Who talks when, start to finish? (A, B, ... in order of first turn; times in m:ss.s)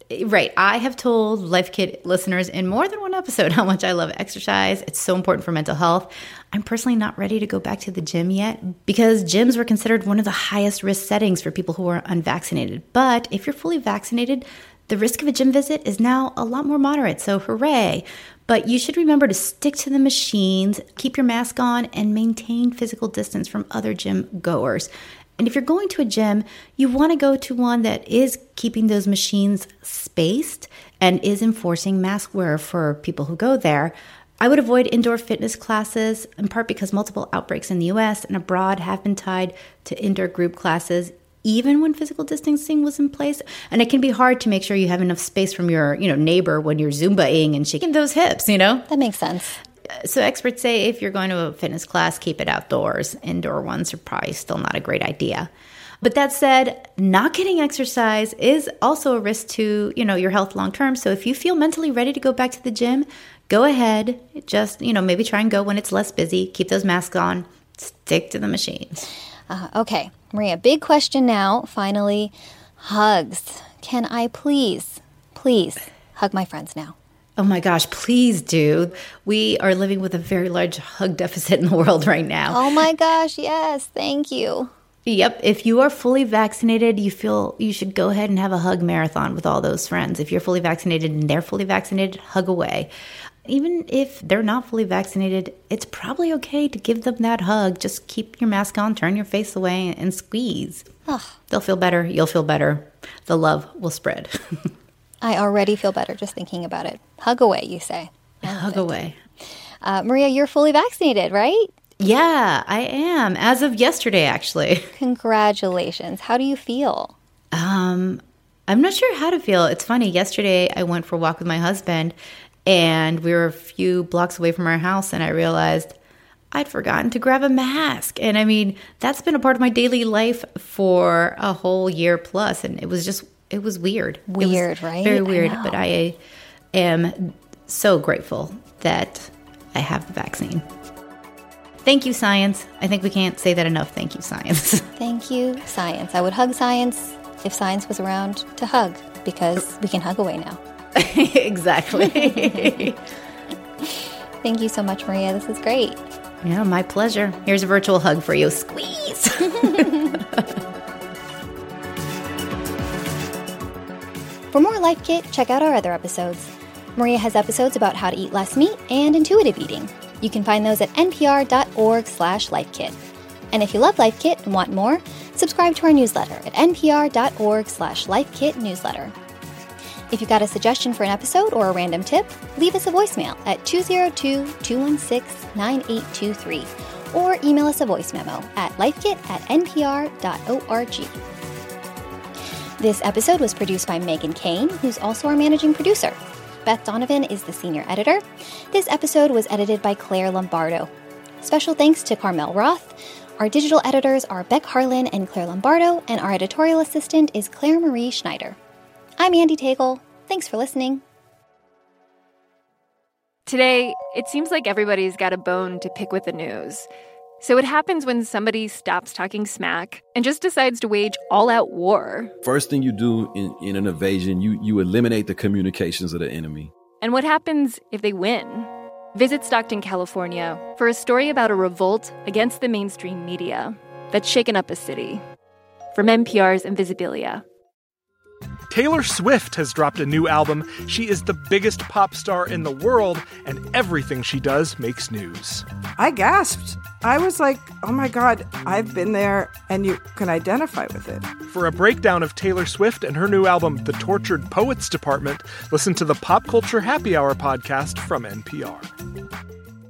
0:00.1-0:48.9 A
0:48.9-0:49.6 B
0:50.0-0:55.5 A
0:56.0-1:09.1 A
1:09.5-1:17.0 B
1:17.4-1:22.6 A
1:22.5-1:24.7 B
1:25.1-1:32.9 A
1:33.5-1:40.9 A
1:41.1-1:41.4 B
1:41.5-1:44.3 A
1:45.2-1:49.0 B
1:48.4-1:49.2 A
1:49.8-1:51.7 B
1:52.0-1:54.9 A
1:55.0-1:57.1 B
1:57.5-2:02.2 A
2:02.7-2:06.0 A
2:06.5-2:16.2 A
2:14.3-2:15.8 B
2:16.7-2:20.6 A
2:21.8-2:24.9 A
2:25.0-2:30.6 B
2:31.0-2:33.0 A
2:34.4-2:36.0 B
2:36.4-2:40.4 A
2:44.5-2:53.0 B
2:53.5-2:59.2 B
3:00.1-3:11.2 B
3:12.8-3:20.9 B
3:21.4-3:28.6 B
3:29.2-3:31.0 B
3:33.5-3:36.9 C
3:37.4-3:42.3 C
3:42.4-3:46.7 D
3:47.0-3:55.2 C
3:55.9-3:57.4 C
3:58.7-4:05.6 E
4:06.0-4:11.3 F
4:11.5-4:18.9 E